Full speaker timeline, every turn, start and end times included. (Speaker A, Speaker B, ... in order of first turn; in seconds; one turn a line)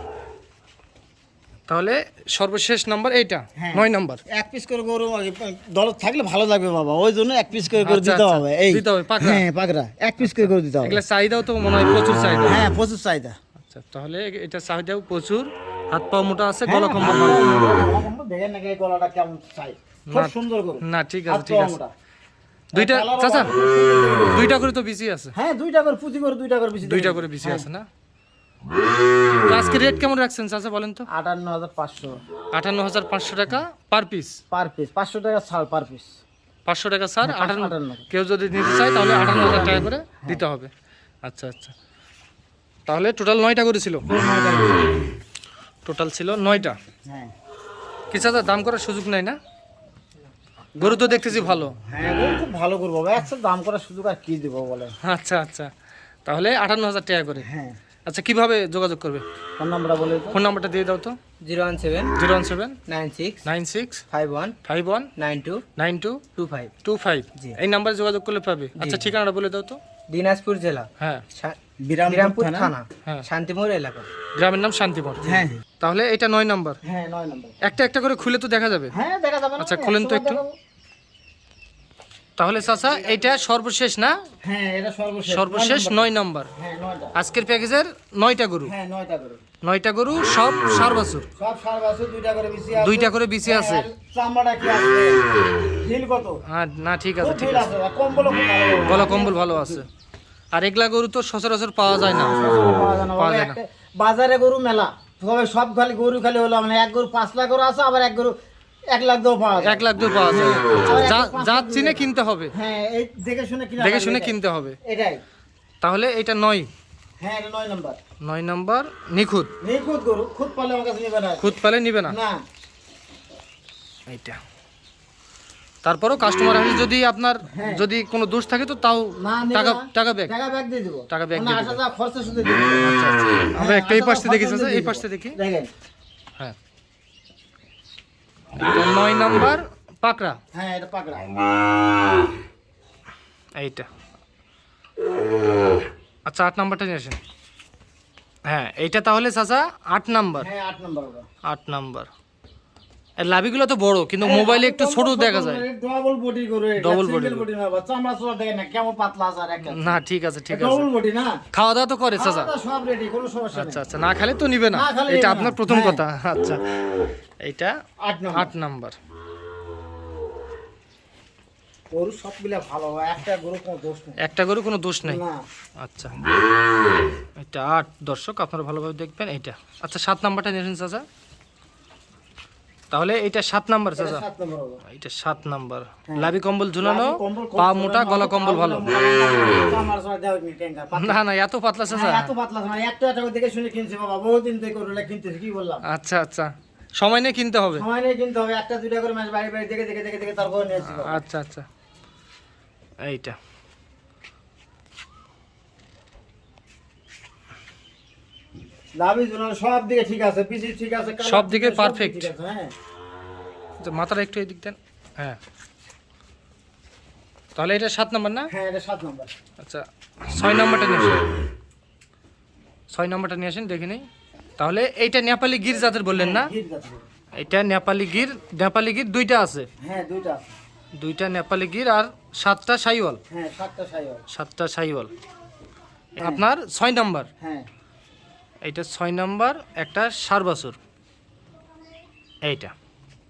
Speaker A: 1.7-4.2
Speaker B: 3.6-11.0
Speaker A: 7.8-9.4
Speaker A: 10.2-12.6
Speaker B: 12.4-13.3
Speaker A: 13.6-17.6
Speaker B: 16.6-21.9
Speaker A: 20.1-21.8
Speaker A: 22.7-23.5
Speaker B: 22.7-24.5
Speaker A: 24.3-25.3
Speaker B: 25.3-27.7
Speaker A: 26.8-27.9
Speaker A: 29.4-31.1
Speaker B: 31.1-32.2
Speaker A: 32.5-34.4
Speaker B: 34.5-36.1
Speaker A: 36.7-40.7
Speaker B: 37.2-38.1
Speaker B: 39.4-40.4
Speaker A: 41.2-41.7
Speaker A: 42.9-44.1
Speaker B: 44.0-45.0
Speaker A: 45.8-46.8
Speaker B: 46.5-47.3
Speaker A: 48.1-49.4
Speaker B: 50.8-55.0
Speaker A: 50.8-51.8
Speaker A: 55.0-55.7
Speaker A: 56.2-57.5
Speaker B: 57.4-57.8
Speaker A: 58.1-59.2
Speaker B: 59.6-60.4
Speaker A: 60.3-61.2
Speaker C: 61.4-62.1
Speaker A: 62.1-62.8
Speaker C: 62.9-63.4
Speaker A: 63.4-64.0
Speaker C: 64.1-64.5
Speaker A: 64.6-65.1
Speaker C: 65.2-65.6
Speaker A: 65.8-66.2
Speaker C: 66.3-66.7
Speaker A: 66.8-69.8
Speaker C: 68.8-69.1
Speaker C: 70.1-74.1
Speaker A: 71.0-71.2
Speaker B: 71.8-72.7
Speaker A: 74.3-76.8
Speaker B: 75.2-75.6
Speaker B: 76.8-77.6
Speaker A: 77.6-78.9
Speaker B: 78.9-80.6
Speaker A: 79.6-80.4
Speaker A: 82.4-84.2
Speaker B: 84.4-87.1
Speaker A: 85.3-86.5
Speaker A: 87.1-88.7
Speaker B: 88.6-89.4
Speaker A: 89.6-91.3
Speaker B: 91.4-96.4
Speaker A: 92.8-93.9
Speaker A: 96.5-97.7
Speaker B: 97.2-99.8
Speaker A: 98.9-99.8
Speaker A: 100.5-102.6
Speaker B: 102.1-108.3
Speaker A: 103.1-103.6
Speaker B: 108.9-115.2
Speaker A: 109.6-112.5
Speaker A: 113.8-114.8
Speaker A: 115.8-116.7
Speaker B: 117.2-118.0
Speaker A: 118.2-119.5
Speaker B: 119.6-121.6
Speaker A: 121.4-122.2
Speaker B: 122.1-122.4
Speaker A: 124.1-124.4
Speaker A: 125.8-130.3
Speaker B: 127.5-127.8
Speaker B: 129.2-132.9
Speaker A: 131.1-131.8
Speaker A: 132.8-135.4
Speaker B: 133.5-135.7
Speaker A: 138.6-140.4
Speaker B: 140.5-141.3
Speaker A: 143.6-143.9
Speaker A: 146.2-147.2
Speaker A: 148.4-150.5
Speaker B: 150.4-151.3
Speaker A: 151.4-152.1
Speaker A: 153.2-155.6
Speaker B: 154.2-161.4
Speaker A: 156.8-157.4
Speaker A: 159.6-160.9
Speaker A: 161.5-162.5
Speaker B: 162.1-163.8
Speaker A: 163.5-166.6
Speaker B: 164.7-166.0
Speaker A: 167.4-167.8
Speaker B: 168.0-168.5
Speaker A: 168.3-168.9
Speaker B: 171.9-174.2
Speaker A: 174.2-175.2
Speaker B: 175.0-175.4
Speaker A: 175.8-176.2
Speaker A: 177.4-181.0
Speaker A: 182.9-184.2
Speaker B: 183.9-184.8
Speaker A: 184.9-188.9
Speaker B: 186.1-191.2
Speaker A: 190.9-192.3
Speaker B: 191.9-195.8
Speaker A: 195.8-197.8
Speaker B: 197.8-201.2
Speaker A: 200.8-201.7
Speaker A: 203.0-203.4
Speaker B: 209.0-212.7
Speaker A: 211.2-212.3
Speaker A: 213.8-215.4
Speaker A: 217.6-218.5
Speaker B: 218.5-219.3
Speaker A: 219.6-221.3
Speaker A: 222.9-224.0
Speaker A: 224.6-226.5
Speaker B: 226.0-227.1
Speaker A: 227.3-229.7
Speaker B: 229.8-230.5
Speaker A: 231.0-233.2
Speaker B: 233.3-234.2
Speaker A: 234.3-235.1
Speaker A: 236.2-237.3
Speaker B: 237.4-237.7
Speaker A: 238.6-240.8
Speaker A: 242.4-242.7